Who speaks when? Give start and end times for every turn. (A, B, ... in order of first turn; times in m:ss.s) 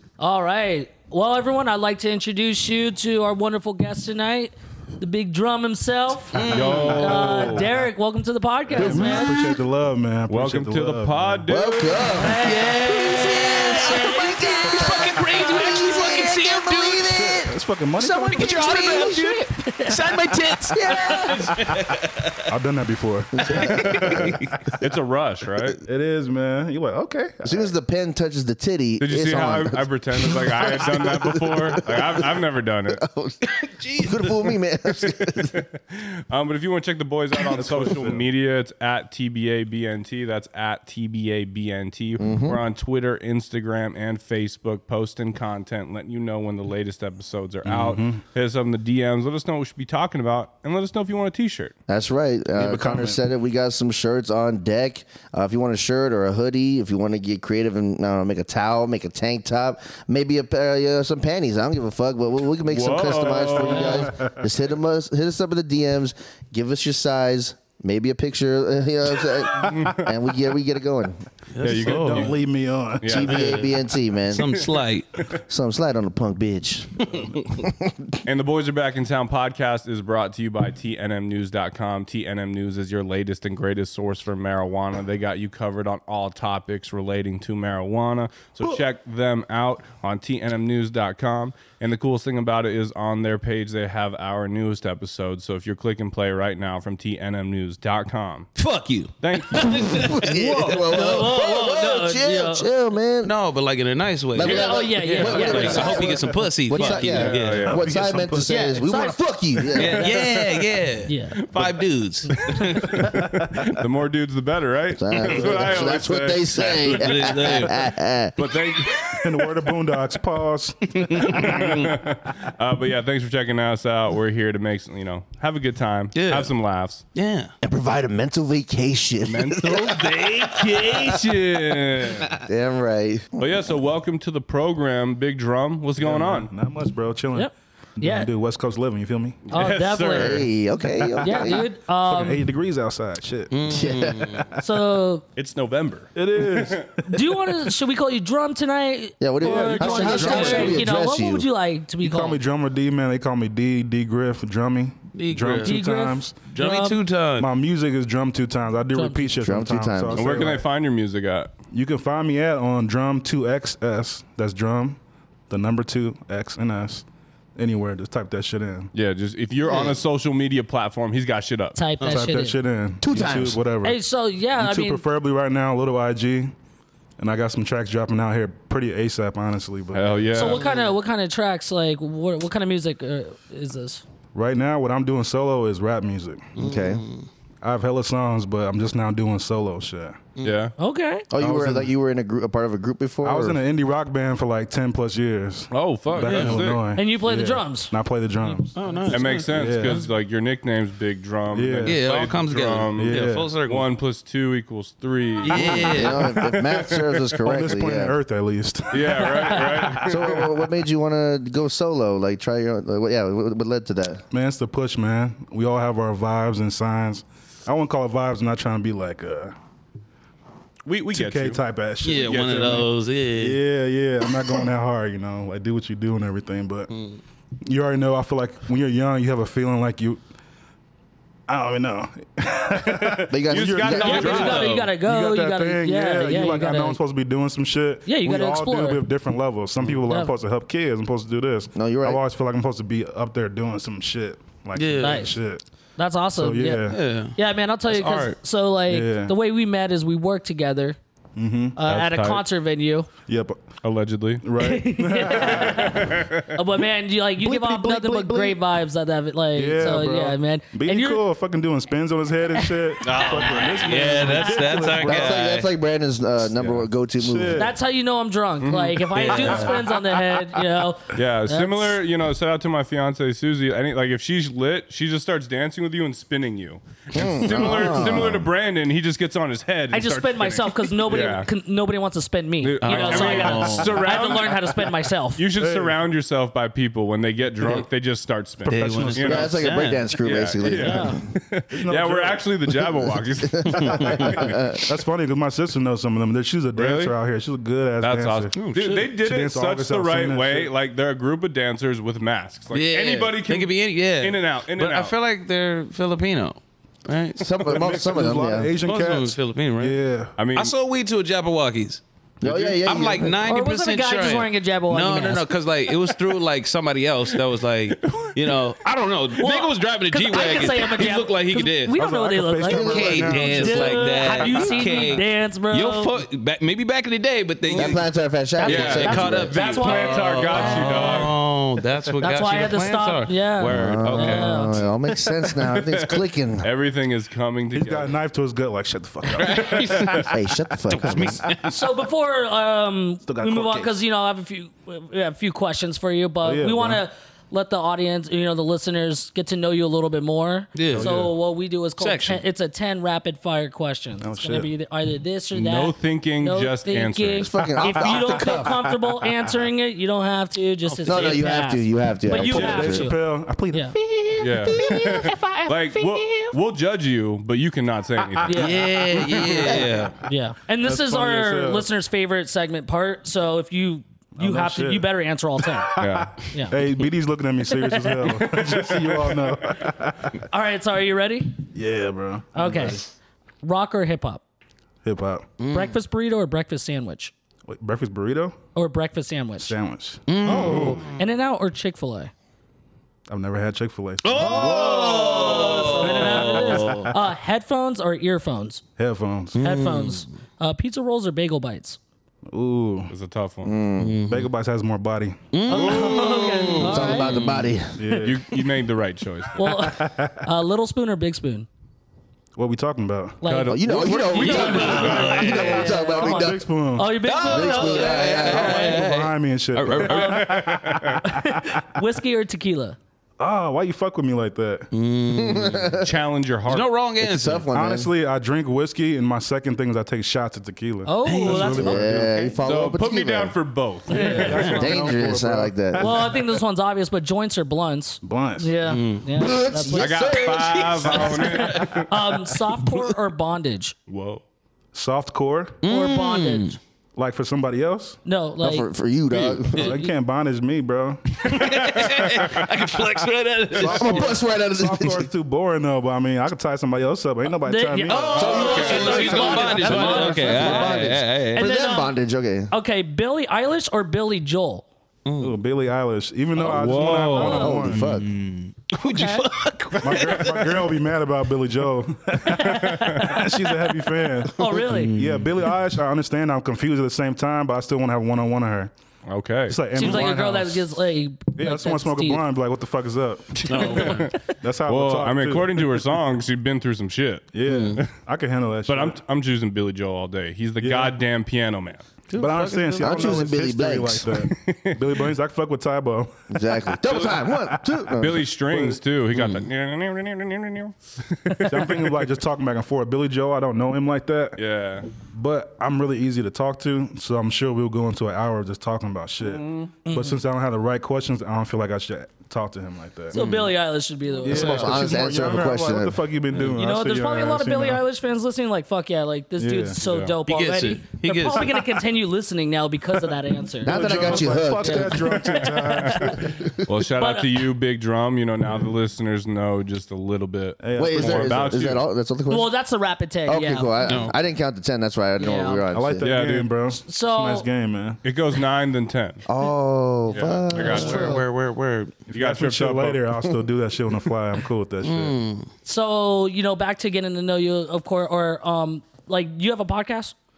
0:00.2-0:09.4 A
0:06.3-0:07.1 B
0:06.5-0:07.7 C
0:06.5-0:07.7 D
0:08.7-0:11.4 C
0:08.8-0:09.6 E
0:10.3-0:12.2 D
0:11.5-0:19.5 E
0:12.1-0:15.7 A
0:12.2-0:17.4 B
0:17.1-0:19.1 C
0:18.0-0:22.5 B
0:18.4-0:20.0 A
0:20.6-0:21.5 E
0:20.8-0:21.3 A
0:22.5-0:24.3 C
0:23.4-0:24.4 E
0:23.6-0:24.7 B
0:23.7-0:25.8 D
0:25.8-0:27.7 C
0:27.4-0:32.3 E
0:29.0-0:33.0 D
0:32.9-0:35.6 E
0:33.4-0:34.6 B
0:35.5-0:51.7 D
0:37.5-0:38.3 C
0:42.2-0:42.6 E
0:47.6-0:48.2 C
0:51.9-1:11.2 E
0:52.6-0:53.2 C
1:02.7-1:04.1 D
1:03.7-1:04.0 A
1:04.0-1:04.4 C
1:09.6-1:10.1 D
1:11.5-1:12.3 B
1:11.6-1:12.4 D
1:11.6-1:13.3 C
1:13.0-1:13.5 D
1:13.1-1:14.6 E
1:13.2-1:15.1 B
1:14.3-1:14.7 D
1:15.5-1:18.1 E
1:18.2-1:38.5 D
1:38.6-1:41.8 B
1:39.2-1:40.4 D
1:39.9-1:43.4 E
1:40.6-1:42.7 A
1:43.2-1:47.7 B
1:44.3-1:50.2 E
1:44.4-1:46.2 A
1:45.5-1:46.3 C
1:46.7-1:47.2 A
1:47.0-1:47.8 D
1:47.4-1:48.7 C
1:48.5-1:50.1 A
1:49.8-1:53.1 B
1:51.1-1:51.4 A
1:52.3-1:52.7 A
1:52.9-1:53.8 C
1:53.0-1:59.2 D
1:55.0-1:58.4 E
1:55.3-1:55.6 C
1:56.6-1:57.9 B
1:59.1-2:02.0 C
2:01.2-2:07.0 D
2:01.3-2:01.8 B
2:06.2-2:06.5 B
2:07.2-2:07.5 B
2:07.6-2:09.9 E
2:09.2-2:12.3 D
2:09.7-2:11.2 B
2:12.4-2:13.4 E
2:13.4-2:16.5 D
2:16.0-2:19.4 C
2:17.3-2:18.3 A
2:19.5-2:20.5 D
2:19.5-2:20.5 A
2:20.1-2:21.7 E
2:20.9-2:24.7 C
2:21.2-2:22.5 A
2:23.5-2:24.5 B
2:23.7-2:24.4 E
2:24.5-2:25.2 A
2:25.4-2:26.8 D
2:26.2-2:27.7 C
2:27.1-2:32.4 A
2:29.2-2:31.5 E
2:29.4-2:30.9 C
2:30.0-2:30.8 B
2:30.0-2:30.5 D
2:32.0-2:36.4 C
2:35.2-2:35.8 B
2:35.6-2:37.0 A
2:36.5-2:37.5 B
2:37.4-2:40.6 C
2:38.9-2:39.3 A
2:39.4-2:40.3 E
2:40.1-2:41.5 D
2:41.7-2:47.0 C
2:47.6-2:48.9 C
2:48.9-2:51.8 D
2:51.8-2:52.6 A
2:52.0-2:52.2 B
2:52.0-2:54.0 C
2:53.0-2:53.6 E
2:53.8-2:55.1 A
2:54.6-2:56.5 C
2:57.2-3:00.2 C
2:59.9-3:00.6 D
3:00.4-3:04.0 A
3:00.5-3:00.9 B
3:04.3-3:06.5 C
3:06.6-3:07.3 B
3:06.6-3:07.0 E
3:07.6-3:10.2 C
3:10.4-3:10.7 D
3:10.8-3:11.3 A
3:11.3-3:13.6 E
3:11.4-3:11.9 C
3:13.2-3:18.8 C
3:15.7-3:16.8 D
3:16.2-3:16.6 B
3:17.0-3:19.1 A
3:18.8-3:19.9 B
3:19.1-3:27.0 D
3:19.4-3:20.1 C
3:21.5-3:22.1 C
3:21.8-3:23.9 B
3:23.0-3:23.5 C
3:25.4-3:26.4 B
3:25.6-3:30.5 C
3:25.6-3:28.2 E
3:28.9-3:30.4 D
3:30.0-3:34.2 E
3:34.3-3:39.6 C
3:40.9-3:41.6 D
3:41.1-3:46.9 C
3:42.0-3:43.6 B
3:46.9-3:47.2 B
3:47.7-3:50.2 C
3:51.5-4:05.6 C
3:53.0-3:54.8 D
3:53.3-3:54.4 E
3:53.9-3:57.0 A
3:54.1-3:54.9 B
3:58.1-3:59.0 A
4:01.8-4:02.2 E
4:04.8-4:05.3 B
4:05.0-4:05.4 A
4:06.0-4:11.0 A
4:06.4-4:07.0 C
4:06.9-4:07.4 B
4:07.9-4:08.4 B
4:08.9-4:09.3 C
4:11.4-4:11.8 C
4:11.8-4:13.1 A
4:11.9-4:12.4 D
4:13.3-4:13.6 C
4:13.8-4:14.5 D
4:14.4-4:16.2 C
4:14.6-4:21.2 A
4:15.4-4:16.5 D
4:17.4-4:18.6 C
4:19.6-4:25.4 C
4:22.6-4:25.0 A
4:23.0-4:25.7 B
4:25.0-4:27.7 E
4:26.6-4:27.8 C
4:27.6-4:32.0 A
4:28.6-4:29.8 D
4:29.3-4:29.7 B
4:29.3-4:29.7 C
4:31.2-4:41.5 D
4:37.2-4:38.5 E
4:37.5-4:38.0 B
4:39.9-4:45.4 A
4:42.6-4:44.8 D
4:42.8-4:44.2 B
4:45.4-4:49.6 D
4:45.6-4:46.0 C
4:48.6-4:49.7 C
4:48.7-4:50.1 B
4:49.2-4:51.3 E
4:50.1-4:54.5 D
4:50.6-4:51.2 A
4:51.7-4:52.5 C
4:53.4-4:54.8 E
4:53.7-4:58.5 C
4:53.7-4:54.3 B
4:56.8-4:57.2 D
4:58.0-5:05.1 D
4:58.6-4:59.1 B
4:59.1-5:00.7 C
5:02.7-5:07.9 B
5:07.4-5:08.7 E
5:07.6-5:10.4 C
5:08.8-5:10.0 B
5:10.4-5:10.7 D
5:10.5-5:22.0 B
5:12.4-5:13.4 E
5:12.5-5:12.7 C
5:13.4-5:15.6 A
5:18.1-5:18.4 C
5:19.4-5:26.2 A
5:22.0-5:25.0 C
5:22.7-5:23.5 E
5:22.7-5:28.1 B
5:27.8-5:29.6 E
5:28.6-5:34.7 B
5:28.6-5:31.3 A
5:28.6-5:31.4 D
5:32.2-5:34.8 A
5:33.6-5:36.7 E
5:34.0-5:34.4 D
5:36.6-5:38.2 D
5:37.7-5:40.3 C
5:39.4-5:40.3 B
5:40.3-5:41.4 E
5:40.9-5:41.8 B
5:41.7-6:04.0 A
5:43.3-5:43.9 C
5:46.4-5:47.0 C
5:50.8-5:51.2 B
5:50.9-5:51.3 C
5:52.0-5:52.4 B
5:54.2-5:54.7 C
5:55.5-5:57.5 D
5:57.4-5:58.7 E
5:57.6-5:58.8 C
6:00.9-6:01.5 B
6:01.1-6:03.1 E
6:02.3-6:05.3 C
6:04.1-6:06.1 E
6:04.4-6:08.8 D
6:08.4-6:10.1 C
6:08.4-6:08.8 A
6:08.5-6:10.1 B
6:10.2-6:16.0 A
6:10.8-6:11.9 C
6:14.4-6:15.1 C
6:15.6-6:20.4 C
6:16.0-6:16.4 D
6:17.7-6:19.0 A
6:20.5-6:21.6 A
6:21.7-6:23.0 C
6:22.6-6:23.0 A
6:23.6-6:24.4 A
6:25.0-6:25.5 C
6:25.6-6:26.0 B
6:25.7-6:27.3 A
6:27.7-6:28.6 C
6:28.8-6:29.8 A
6:29.6-6:31.0 C
6:30.3-6:31.2 B
6:30.4-6:32.3 A
6:33.3-6:37.1 C
6:34.2-6:37.1 B
6:34.4-6:38.8 A
6:39.0-6:39.6 C
6:39.6-6:40.3 B
6:39.6-6:42.0 A
6:42.5-6:43.1 C
6:43.1-6:43.7 D
6:43.6-6:44.2 E
6:44.0-6:44.5 B
6:44.2-6:45.5 C
6:45.5-6:47.7 B
6:45.7-6:47.4 A
6:45.7-6:46.8 D
6:46.8-6:48.2 E
6:48.0-6:48.5 C
6:48.2-6:49.7 D
6:49.5-6:51.7 A
6:49.6-6:50.5 C
6:52.6-6:57.2 C
6:53.4-6:59.1 A
6:53.4-6:55.6 D
6:53.7-6:56.6 E
6:54.0-6:55.9 B
6:57.2-7:01.1 B
6:57.4-6:59.0 E
6:58.4-7:01.9 C
7:00.0-7:00.7 A
7:00.6-7:01.2 D
7:01.2-7:03.0 A
7:03.4-7:04.9 C
7:04.9-7:06.0 B
7:05.3-7:06.1 E
7:05.9-7:06.9 D
7:06.7-7:07.7 B
7:07.2-7:08.1 E
7:07.7-7:12.3 C
7:11.1-7:12.6 A
7:11.2-7:12.1 B
7:11.7-7:13.6 E
7:12.6-7:14.5 D
7:14.1-7:14.8 A
7:14.1-7:16.4 C
7:14.3-7:16.3 E
7:14.5-7:14.9 B
7:16.0-7:20.1 A
7:18.2-7:18.8 C
7:18.8-7:22.0 B
7:19.4-7:21.1 E
7:20.0-7:22.1 D
7:21.1-7:24.0 A
7:22.8-7:23.0 B
7:24.1-7:24.4 D
7:24.9-7:25.8 C
7:25.8-7:26.8 B
7:25.9-7:26.8 A
7:27.2-7:28.2 C
7:28.2-7:28.9 A
7:28.6-7:30.0 E
7:29.3-7:29.7 B
7:29.7-7:33.1 C
7:29.8-7:30.1 A
7:31.4-7:34.4 B
7:31.7-7:32.6 D
7:33.7-7:41.1 C
7:33.8-7:35.3 E
7:37.5-7:42.2 A
7:38.0-7:41.7 B
7:38.3-7:42.7 E
7:42.7-7:44.9 A
7:45.3-7:45.5 B
7:45.4-7:48.2 C
7:46.6-7:47.8 D
7:47.3-7:47.9 A
7:47.4-7:48.3 E
7:48.0-7:50.9 B
7:49.1-7:49.5 A
7:50.0-7:58.9 C
7:52.5-7:53.5 A
7:52.9-7:53.2 D
7:54.5-7:55.1 A
7:54.6-7:55.7 B
7:59.3-7:59.8 D
7:59.7-8:00.9 C
7:59.9-8:02.4 A
8:00.0-8:00.3 B
8:01.6-8:05.9 C
8:03.6-8:04.3 B
8:03.7-8:04.4 D
8:04.9-8:08.1 D
8:07.5-8:09.2 C
8:07.7-8:08.0 B
8:08.9-8:12.1 D
8:10.8-8:11.2 C
8:12.3-8:13.5 B
8:12.3-8:19.0 C
8:13.0-8:14.4 E
8:14.5-8:15.3 D
8:16.5-8:18.5 E
8:17.1-8:17.4 D
8:18.1-8:22.2 D
8:19.3-8:19.7 B
8:21.7-8:24.6 C
8:24.6-8:25.1 D
8:25.2-8:33.4 C
8:29.4-8:29.9 D
8:30.0-8:30.4 A
8:33.3-8:33.7 B
8:33.3-8:35.0 A
8:34.4-8:38.0 C
8:34.4-8:36.2 E
8:36.7-8:46.5 A
8:39.6-8:40.0 C
8:40.0-8:40.4 D
8:40.5-8:42.0 B
8:43.8-8:45.4 E
8:43.8-8:46.7 C
8:45.6-8:52.0 D
8:47.2-8:47.6 A
8:50.8-8:51.7 C
8:51.0-8:52.7 E
8:52.5-8:53.9 A
8:53.5-8:56.3 E
8:54.0-8:54.4 B
8:55.4-8:55.9 A
8:55.9-8:58.2 C
8:56.2-8:56.7 D
8:56.9-8:57.7 A
8:58.2-8:59.4 D
8:59.5-9:01.4 E
9:00.3-9:01.4 D
9:00.8-9:02.2 B
9:00.8-9:01.4 A
9:02.3-9:05.4 C
9:02.3-9:03.3 D
9:05.0-9:05.7 B
9:05.8-9:10.4 A